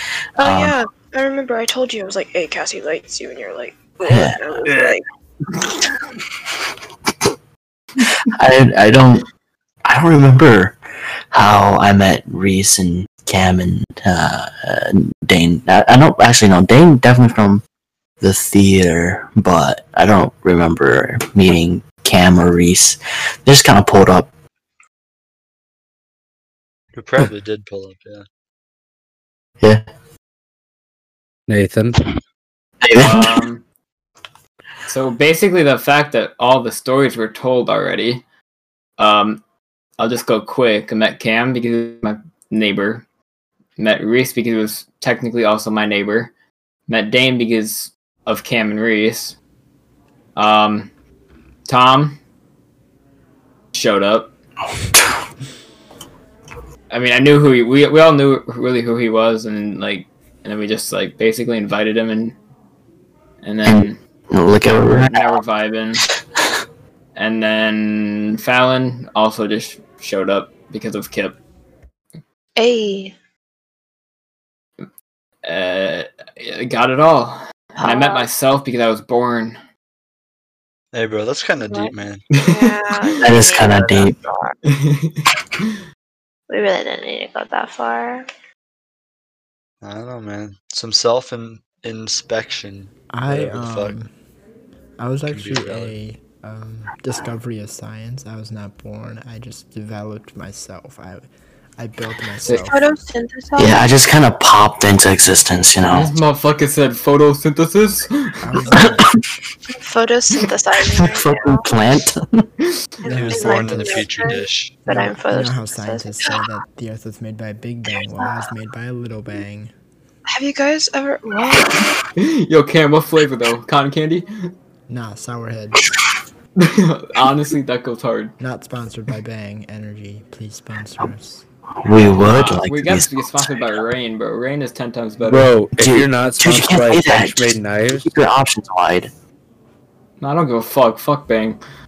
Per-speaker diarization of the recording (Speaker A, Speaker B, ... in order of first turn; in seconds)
Speaker A: 0.4-5.0, 72.6-73.1, 77.8-78.3, 81.7-84.5, 86.5-88.3, 102.7-103.9, 109.7-111.7, 113.0-116.4, 120.3-121.9
Speaker B: 0.4-0.8, 4.1-4.4, 8.2-9.3, 9.8-10.8, 11.3-17.6, 18.2-24.3, 29.6-29.9, 32.8-33.4, 63.6-65.4, 83.2-84.2, 103.6-106.2, 108.8-109.2, 110.9-112.5, 131.8-133.7, 135.8-139.1
Speaker C: 26.9-28.3, 80.9-82.2, 89.8-94.0, 95.3-95.9, 113.1-114.8
Speaker D: 31.5-32.0, 135.2-138.1
Speaker E: 33.0-33.6, 34.9-38.2, 39.0-39.4, 40.0-43.0, 43.8-46.3, 46.9-49.4, 50.4-50.9, 51.6-52.2, 53.7-54.3, 56.9-62.4, 63.4-64.0, 64.6-66.1, 67.2-71.4, 75.4-79.6, 82.3-83.2, 84.7-85.8, 102.4-102.7, 105.9-108.7, 122.2-124.5, 126.6-128.3, 132.0-135.5, 140.2-141.6
Speaker F: 93.1-94.1, 95.0-102.8, 108.4-109.1, 113.0-114.3, 114.9-119.7, 124.9-125.9, 128.4-131.4